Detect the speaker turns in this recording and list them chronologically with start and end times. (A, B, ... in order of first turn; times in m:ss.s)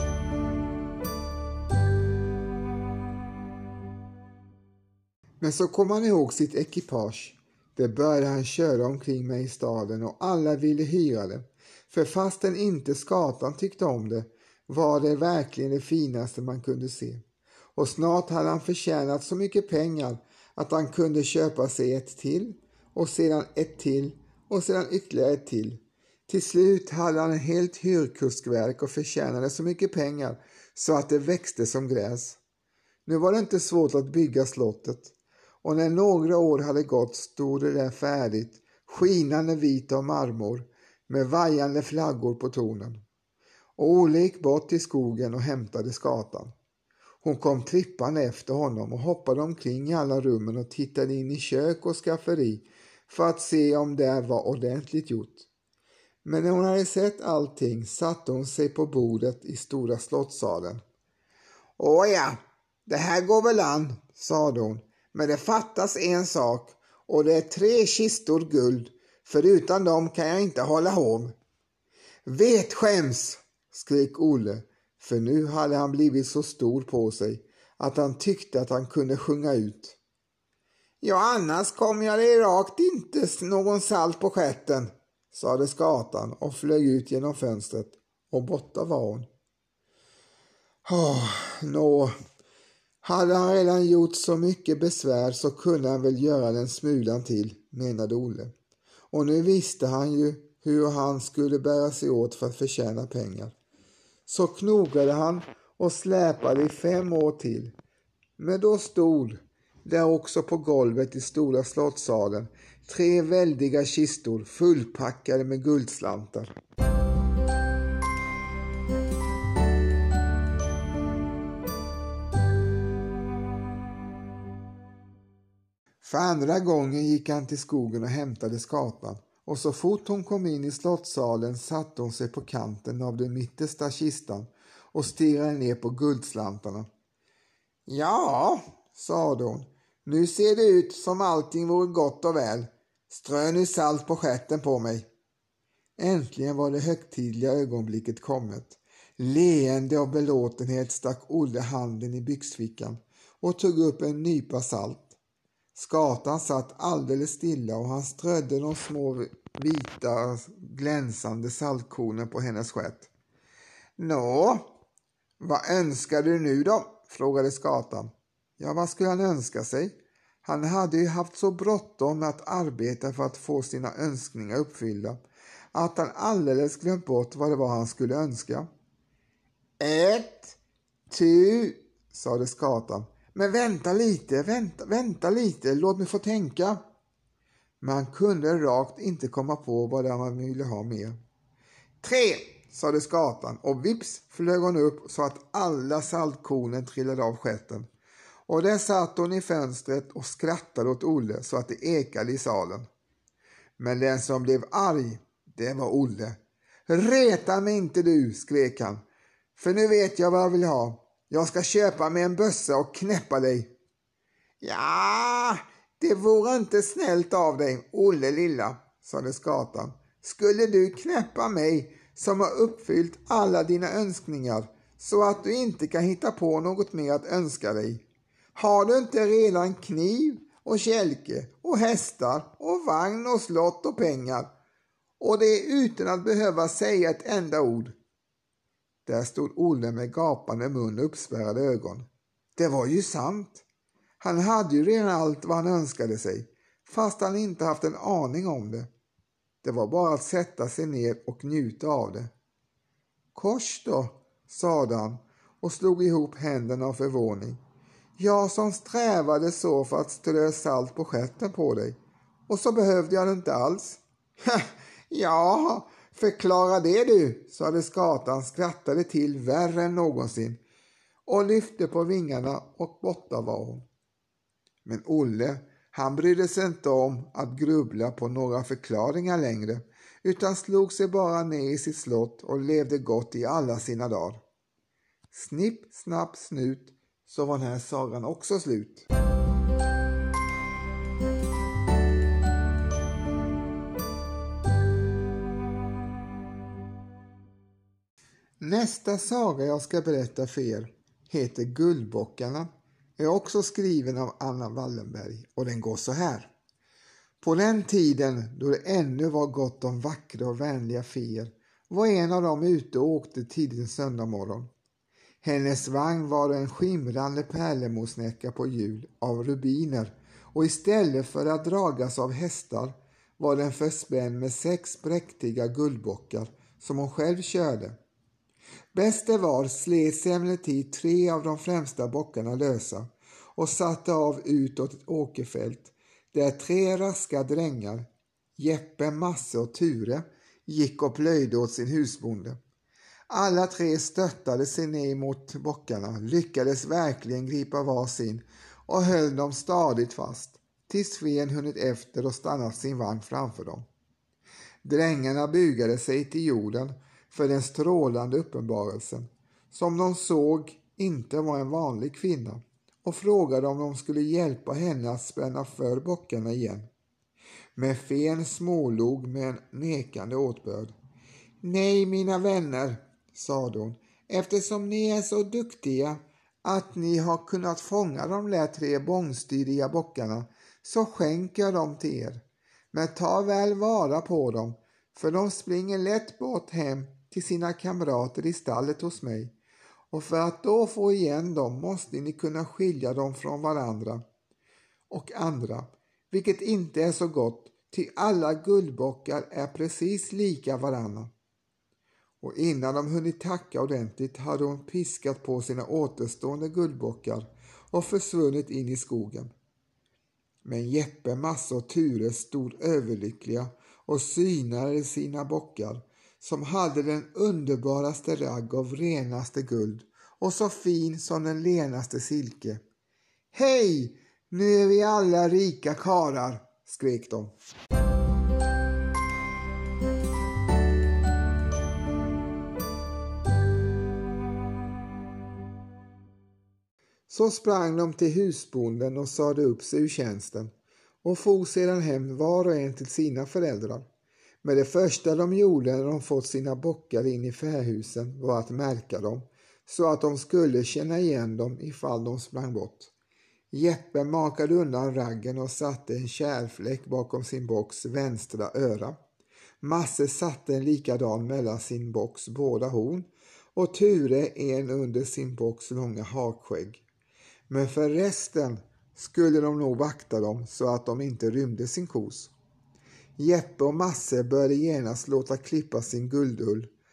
0:05.4-0:17.2 A
0:17.8-0:32.4 A
0:33.0-0:43.0 A
0:43.8-0:46.5 A
0:47.2-0:55.5 A
0:56.2-1:00.8 A
1:01.8-1:11.3 A
1:12.2-1:20.0 A
1:21.0-1:29.3 A
1:30.8-1:32.1 A
1:33.0-1:38.5 A
1:39.1-1:43.5 A
1:44.3-1:47.7 A
1:48.4-1:56.5 A
2:06.0-2:16.8 A
2:17.9-2:25.1 A
2:26.0-2:35.2 A
2:35.7-2:43.1 A
2:44.0-2:44.7 A
2:45.4-2:55.2 A
2:55.7-2:58.7 A
2:59.8-3:06.8 A
3:07.8-3:11.2 A
3:12.0-3:17.9 A
3:18.5-3:22.9 A
3:23.8-3:29.0 A
3:29.6-3:33.7 A
3:34.6-3:54.5 A
3:55.2-3:57.9 A
3:59.0-4:03.6 A
4:04.2-4:08.9 A
4:09.6-4:12.3 A
4:13.3-4:17.6 A
4:18.2-4:30.6 A
4:31.2-4:33.8 A
4:34.8-4:44.4 A
4:45.3-4:49.0 A
4:58.6-5:06.5 A
5:07.4-5:14.7 A
5:15.4-5:28.0 A
5:28.9-5:42.6 A
5:43.3-5:53.8 A
5:54.8-6:06.8 A
6:07.8-6:10.9 A
6:11.6-6:29.5 A
6:30.1-6:34.2 A
6:35.1-6:41.3 A
6:42.4-6:49.5 A
6:50.6-7:02.8 A
7:03.5-7:07.5 A
7:17.3-7:20.7 A
7:21.2-7:24.1 A
7:24.6-7:33.1 A
7:33.7-7:39.2 A
7:39.8-7:47.0 A
7:47.7-7:52.5 A
7:53.4-7:56.9 A